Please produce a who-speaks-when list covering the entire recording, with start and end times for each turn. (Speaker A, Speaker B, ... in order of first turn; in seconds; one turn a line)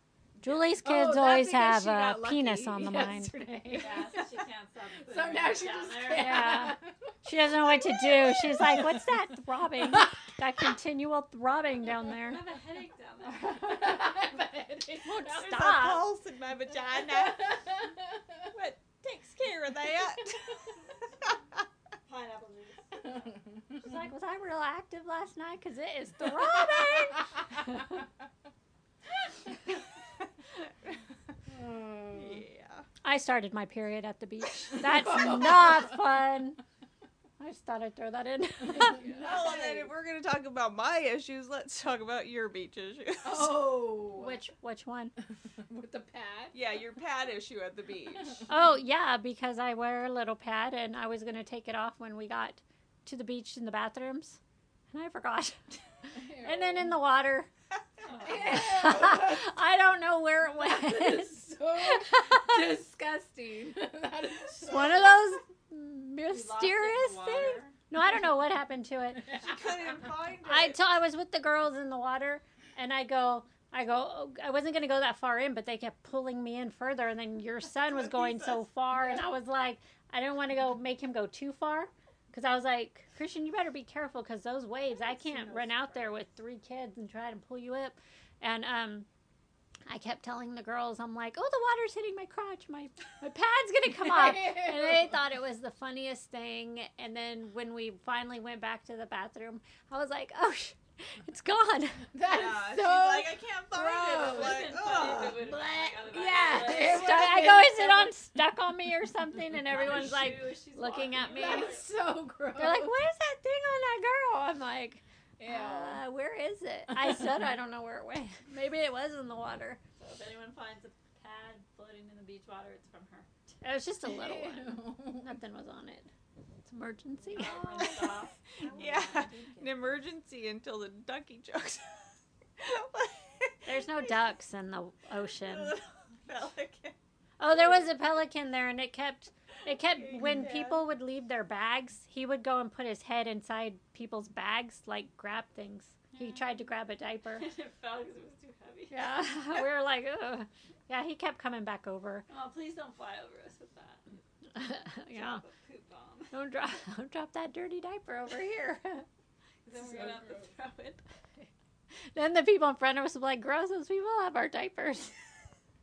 Speaker A: 0.4-3.4
Speaker B: 0.8-4.3
Speaker C: 3.7-6.7
Speaker B: 5.0-9.1
Speaker A: 6.1-12.4
Speaker B: 9.8-10.2
Speaker C: 12.2-13.7
Speaker B: 13.4-15.4
Speaker A: 15.0-16.1
Speaker D: 15.3-17.6
Speaker B: 16.9-18.5
Speaker D: 18.5-20.6
Speaker C: 22.1-23.2
Speaker A: 23.8-28.0
Speaker D: 30.6-31.0
Speaker B: 31.5-32.4
Speaker D: 32.1-32.8
Speaker A: 33.0-36.6
Speaker B: 34.7-36.1
Speaker A: 37.4-39.7
Speaker B: 38.6-39.9
Speaker C: 39.0-39.4
Speaker D: 39.2-43.6
Speaker B: 43.2-44.4
Speaker A: 44.1-45.1
Speaker B: 45.7-46.5
Speaker D: 46.5-48.4
Speaker A: 48.5-54.4
Speaker A: 54.9-57.5
Speaker B: 56.1-56.9
Speaker C: 58.0-58.7
Speaker B: 58.2-59.5
Speaker A: 58.2-62.7
Speaker B: 60.6-65.1
Speaker A: 64.6-69.3
Speaker C: 66.3-67.7
Speaker D: 69.3-71.0
Speaker A: 70.5-89.1
Speaker D: 77.8-78.6
Speaker B: 85.2-85.7
Speaker A: 89.9-102.1
Speaker B: 93.9-95.1
Speaker B: 102.1-108.1
Speaker D: 102.2-105.4
Speaker C: 104.2-107.3
Speaker A: 106.7-111.8
Speaker C: 109.6-111.9
Speaker B: 111.3-112.9
Speaker A: 112.5-119.8
Speaker B: 115.4-116.0
Speaker C: 120.0-123.3
Speaker A: 123.6-126.1
Speaker B: 124.0-125.4
Speaker A: 126.7-128.0
Speaker C: 127.3-129.3
Speaker D: 127.3-128.0
Speaker B: 128.6-129.2
Speaker D: 128.6-131.9
Speaker A: 128.9-129.6
Speaker D: 132.6-134.1
Speaker A: 133.7-135.8
Speaker D: 135.4-137.0
Speaker A: 137.4-147.4
Speaker D: 139.8-140.8
Speaker C: 146.1-146.5
Speaker C: 147.4-149.1
Speaker A: 148.9-152.2
Speaker C: 152.3-154.2
Speaker A: 154.5-155.4
Speaker C: 155.1-156.3
Speaker A: 156.3-159.1
Speaker C: 159.7-161.0
Speaker A: 162.1-165.1